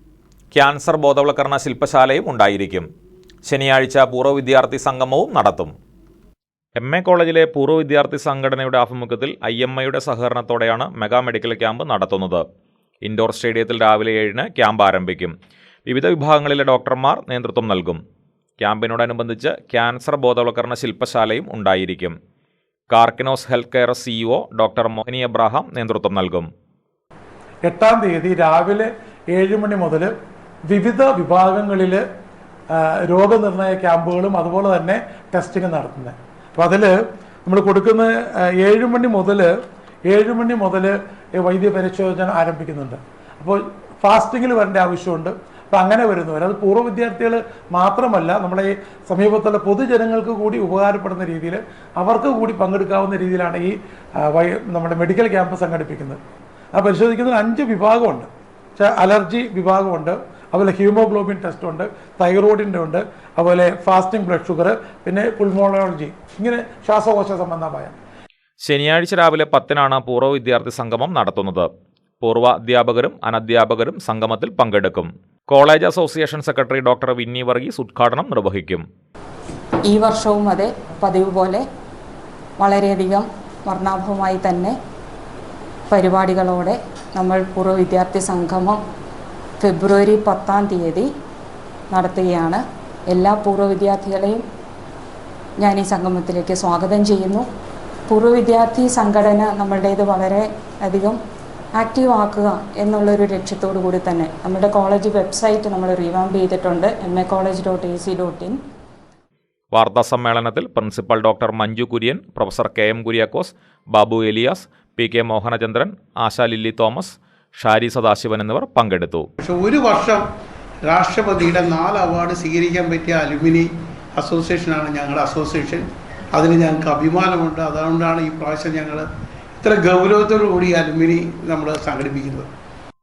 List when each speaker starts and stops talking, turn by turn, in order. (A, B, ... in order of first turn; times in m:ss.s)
0:00.5-0:02.9 A
0:03.4-0:05.7 A
0:06.8-0:12.4 A
0:13.0-0:15.3 A
0:15.9-0:18.0 A
0:18.6-0:22.1 A
0:22.9-0:26.5 A
0:27.6-0:30.1 B
0:30.7-0:32.0 B
0:32.7-0:39.5 B
0:40.1-0:56.2 B
0:56.7-1:07.9 B
1:08.6-1:11.7 A
1:12.2-1:18.8 A
1:19.9-1:21.6 C
1:22.6-1:24.7 C
1:25.9-1:28.8 C
1:29.6-1:31.0 C
1:31.9-1:34.4 C
1:35.6-1:37.4 C
1:38.1-1:41.2 C
1:41.8-1:48.5 C
1:49.7-1:59.3 A
1:59.4-2:00.2 D
2:00.8-2:09.0 D
2:09.6-2:12.5 D